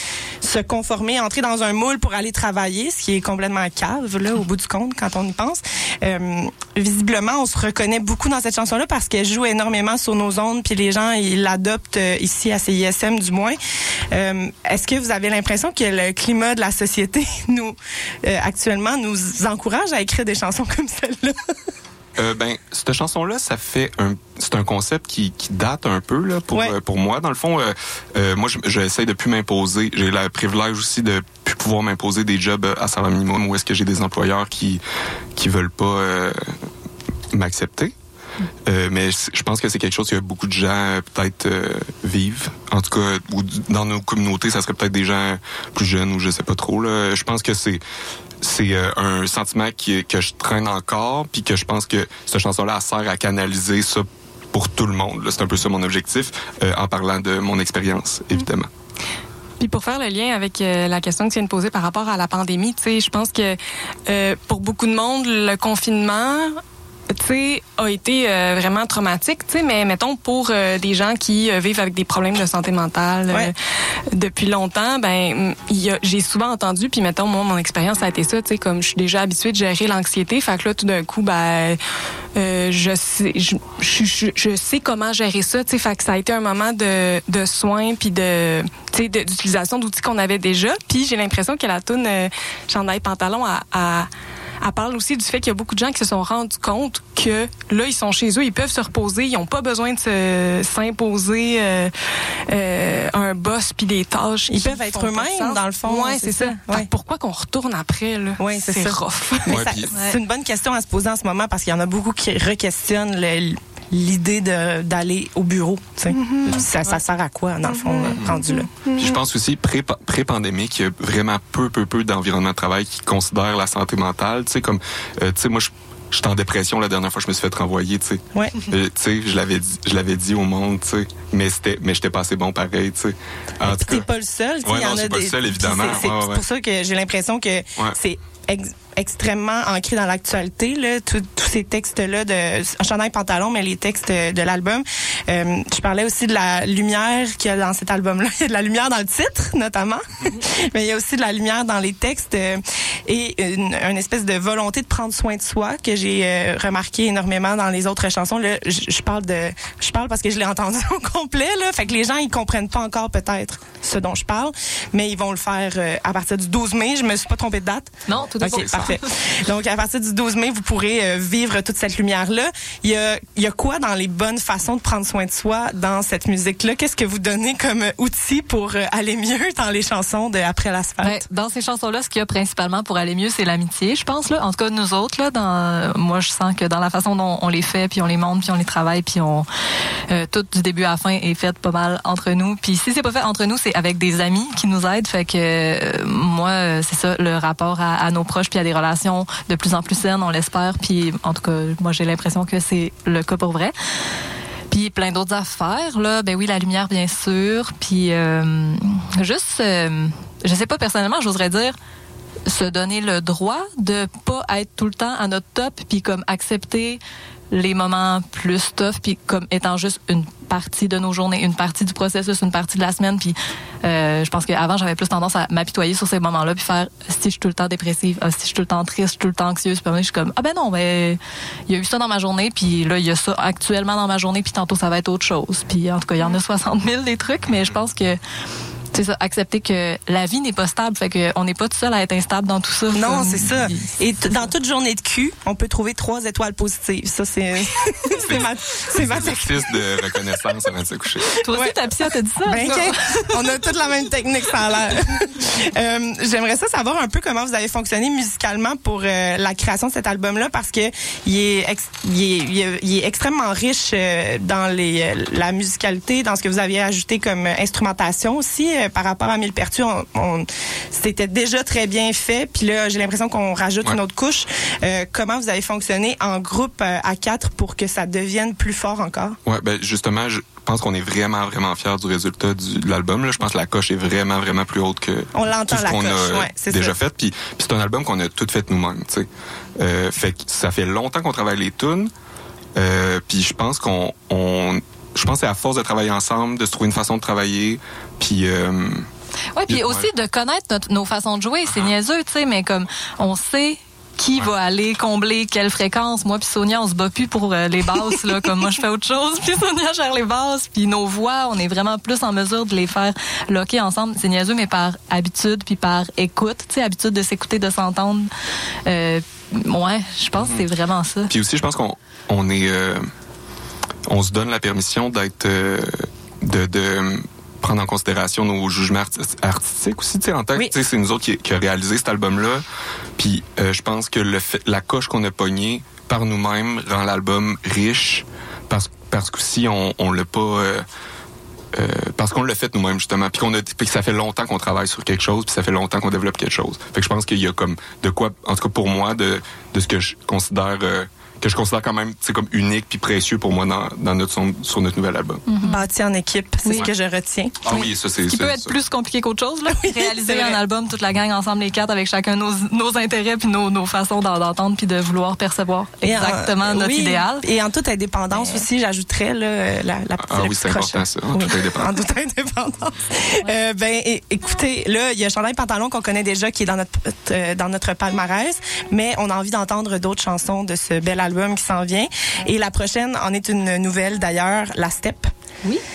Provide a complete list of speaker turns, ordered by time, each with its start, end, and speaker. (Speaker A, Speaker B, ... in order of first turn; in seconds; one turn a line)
Speaker A: 0.4-13.6
Speaker A: 14.1-21.4
Speaker B: 22.1-34.8
Speaker B: 35.3-36.6
Speaker B: 37.3-37.9
Speaker B: 38.6-47.8
Speaker B: 48.4-58.7
Speaker C: 59.6-66.6
Speaker C: 67.1-73.5
Speaker C: 74.1-81.8
Speaker C: 82.3-94.1
Speaker C: 94.6-101.9
Speaker C: 102.5-109.5
Speaker A: 104.5-106.9
Speaker A: 108.4-118.9
Speaker B: 109.5-109.9
Speaker D: 109.9-110.2
Speaker C: 116.2-116.5
Speaker B: 116.4-116.7
Speaker B: 118.2-118.4
Speaker B: 119.0-134.1
Speaker A: 128.3-128.6
Speaker A: 133.6-181.2
Speaker B: 134.6-136.4
Speaker D: 168.1-169.0
Speaker D: 181.0-189.5
Speaker D: 190.1-203.7
Speaker D: 204.7-211.8
Speaker D: 212.5-217.0
Speaker D: 217.5-238.2
Speaker D: 238.9-244.4
Speaker A: 242.9-250.1
Speaker B: 248.2-251.3
Speaker D: 251.4-253.4
Speaker A: 251.5-279.4
Speaker B: 279.4-292.1
Speaker A: 285.4-286.9
Speaker B: 292.7-299.1
Speaker D: 299.6-318.3
Speaker B: 299.7-300.1
Speaker D: 318.9-321.3
Speaker B: 320.4-320.6
Speaker B: 321.3-323.1
Speaker B: 324.1-332.6
Speaker B: 333.2-340.9
Speaker B: 341.7-355.4
Speaker D: 355.5-355.8
Speaker A: 355.6-357.8
Speaker B: 357.6-358.8
Speaker D: 357.8-367.4
Speaker A: 359.7-360.6
Speaker A: 366.0-385.3
Speaker D: 368.3-368.6
Speaker B: 370.2-371.9